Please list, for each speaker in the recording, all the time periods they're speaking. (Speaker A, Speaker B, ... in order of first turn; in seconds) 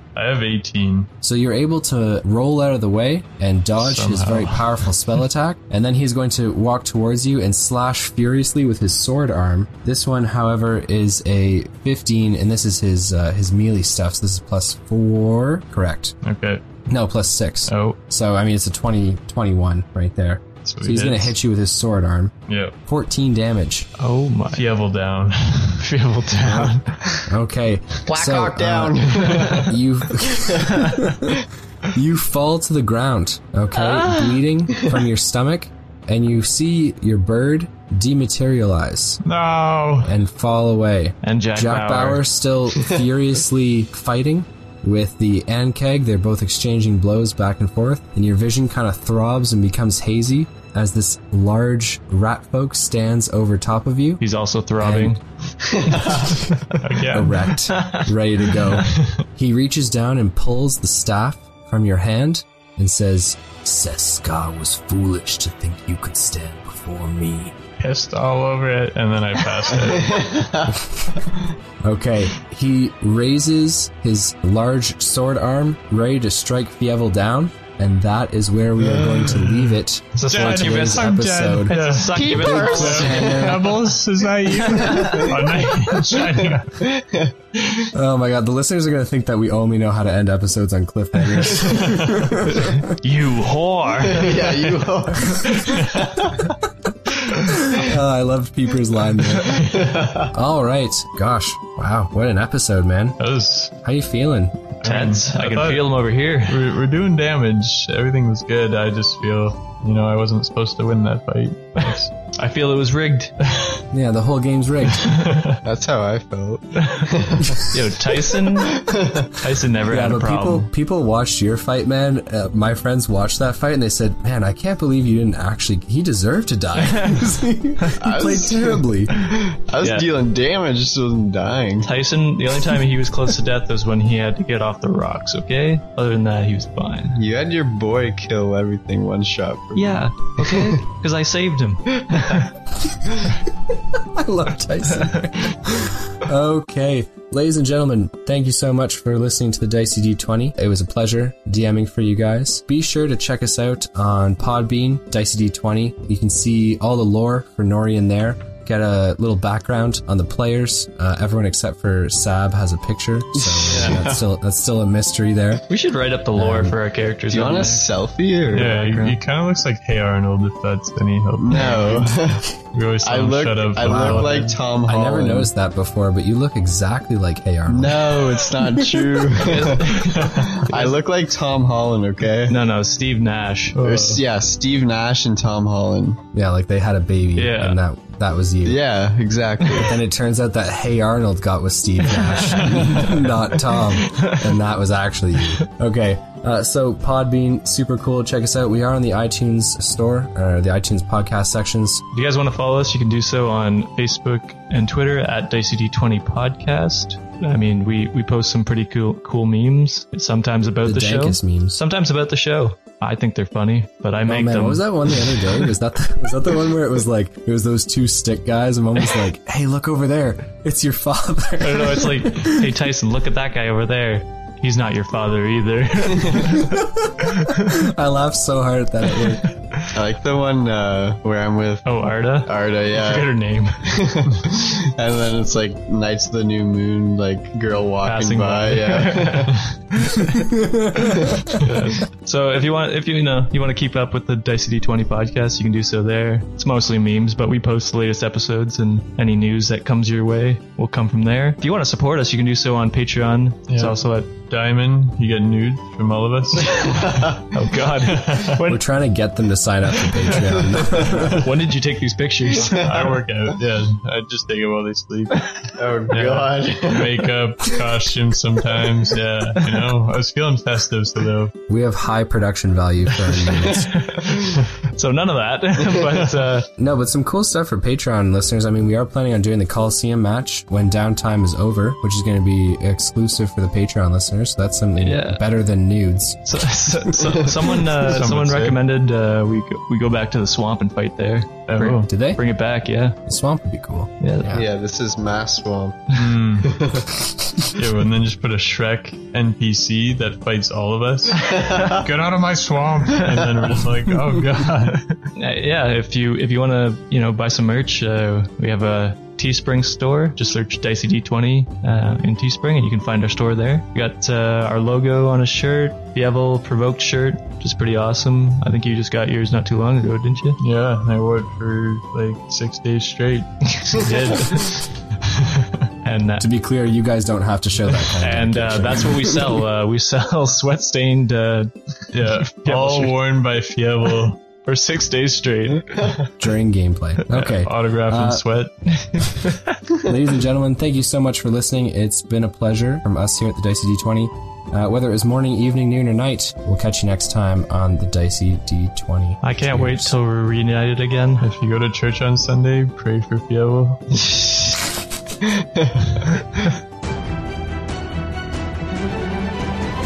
Speaker A: 0.1-1.1, 3.8-5.0, 16.2-16.8, 17.7-18.0, 20.6-21.4, 22.5-22.8, 24.5-25.9, 39.2-40.1, 56.8-57.5, 58.9-59.2, 67.8-70.3, 79.4-86.8, 91.6-92.3, 95.6-96.0, 103.2-103.7, 104.8-112.1, 115.0-115.6, 168.5-174.6, 180.2-180.6, 183.8-184.2, 253.7-257.3, 258.1-258.6, 262.6-265.5, 266.1-271.5, 287.8-288.8, 291.7-292.1, 296.1-296.7, 297.7-305.2, 320.6-325.7, 332.1-334.4, 337.3-338.9, 351.4-354.4
Speaker B: 1.2-16.1, 16.9-22.3, 22.9-23.9, 26.4-26.7, 27.2-39.2, 40.0-54.2, 54.8-55.1, 57.1-67.5, 70.7-71.2, 71.8-83.8, 87.9-92.8, 97.3-103.2, 103.8-104.6, 113.9-115.3, 119.9-129.1, 144.1-165.7, 166.4-166.8, 173.8-179.3, 186.3-188.8, 189.8-202.0, 210.8-211.8, 214.3-222.7, 226.6-229.5, 240.8-241.5, 258.7-261.4, 271.7-273.9, 276.8-286.4, 292.1-292.4, 293.3-294.7, 326.4-329.3, 336.4-338.4, 340.0-350.1
Speaker C: 24.0-24.6, 25.8-27.0, 30.6-31.0, 33.7-34.4, 41.2-42.2, 54.2-55.2, 56.0-56.8, 57.7-58.1, 80.2-83.3, 84.7-85.3, 92.9-94.8, 95.3-95.8, 104.8-106.7, 111.8-113.3, 116.8-117.1, 117.6-120.7, 126.9-127.2, 129.8-130.1, 131.8-137.2, 139.8-142.5, 165.7-167.8, 168.5-169.2, 179.3-181.0, 182.5-184.0, 187.3-187.8, 192.2-193.1, 194.0-194.5, 202.1-215.5, 221.6-226.9, 227.4-227.7, 229.2-229.5, 231.8-233.9, 238.0-239.6, 241.5-254.3, 257.5-258.8, 261.2-263.2, 273.4-276.7, 285.0-285.4, 286.5-293.2, 294.2-294.6, 305.4-320.6, 323.7-324.7, 326.0-326.5, 328.2-333.2, 334.6-336.2, 338.9-339.8, 349.4-351.5
Speaker D: 28.1-30.8, 55.7-56.4, 69.9-71.5, 78.8-79.4, 82.1-83.5, 84.8-85.4, 86.8-87.8, 94.1-96.4, 99.4-100.3, 115.6-119.4, 128.0-131.9, 137.1-140.8, 141.9-142.5, 163.4-164.2, 167.3-168.7, 171.4-172.5, 173.0-175.5, 177.7-182.6, 183.8-186.2, 188.7-190.0, 193.0-193.2, 229.9-231.9, 232.4-233.3, 233.9-241.6, 256.8-257.4, 260.3-261.4, 262.5-263.2, 265.8-267.8, 294.5-297.2, 301.4-302.0, 336.0-336.3, 355.4-356.4